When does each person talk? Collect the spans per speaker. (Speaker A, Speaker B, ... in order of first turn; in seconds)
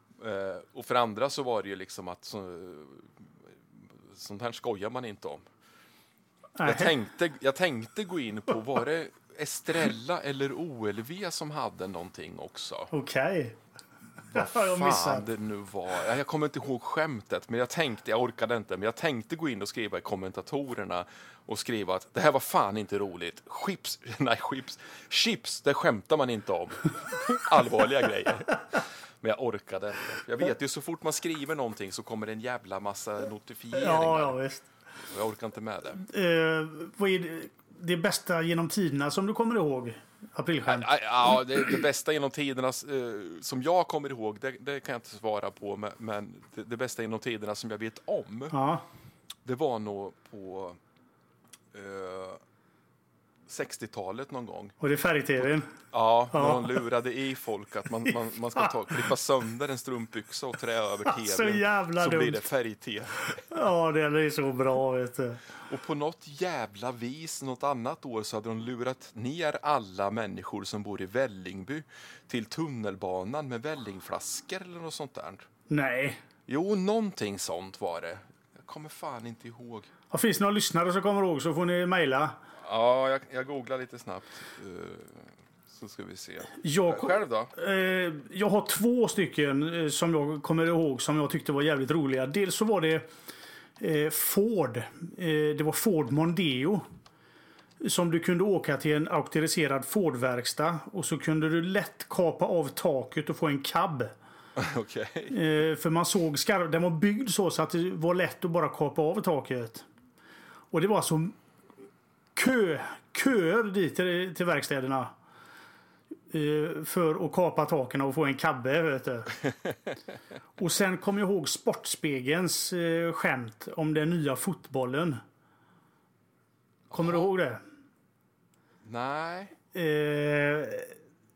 Speaker A: 0.2-3.1, 3.7-5.4, 6.6-12.9, 14.2-34.4, 35.0-36.0, 40.6-48.6, 49.4-50.8, 51.7-52.4, 53.5-54.8, 55.4-63.4, 65.7-75.5, 76.5-79.9, 82.6-87.5, 104.5-105.3, 126.9-127.2, 128.8-129.5
Speaker B: 6.6-6.9, 12.9-13.6, 14.3-15.3, 33.8-34.6, 36.0-41.0, 48.5-48.9, 54.8-55.7, 56.3-56.7, 61.0-62.5, 63.4-65.4, 75.7-76.2, 80.1-82.4, 86.6-93.1, 93.8-96.8, 97.8-104.1, 105.3-109.8, 110.7-111.3, 112.3-115.1, 116.3-119.3, 120.6-125.2, 126.9-127.6, 129.7-130.9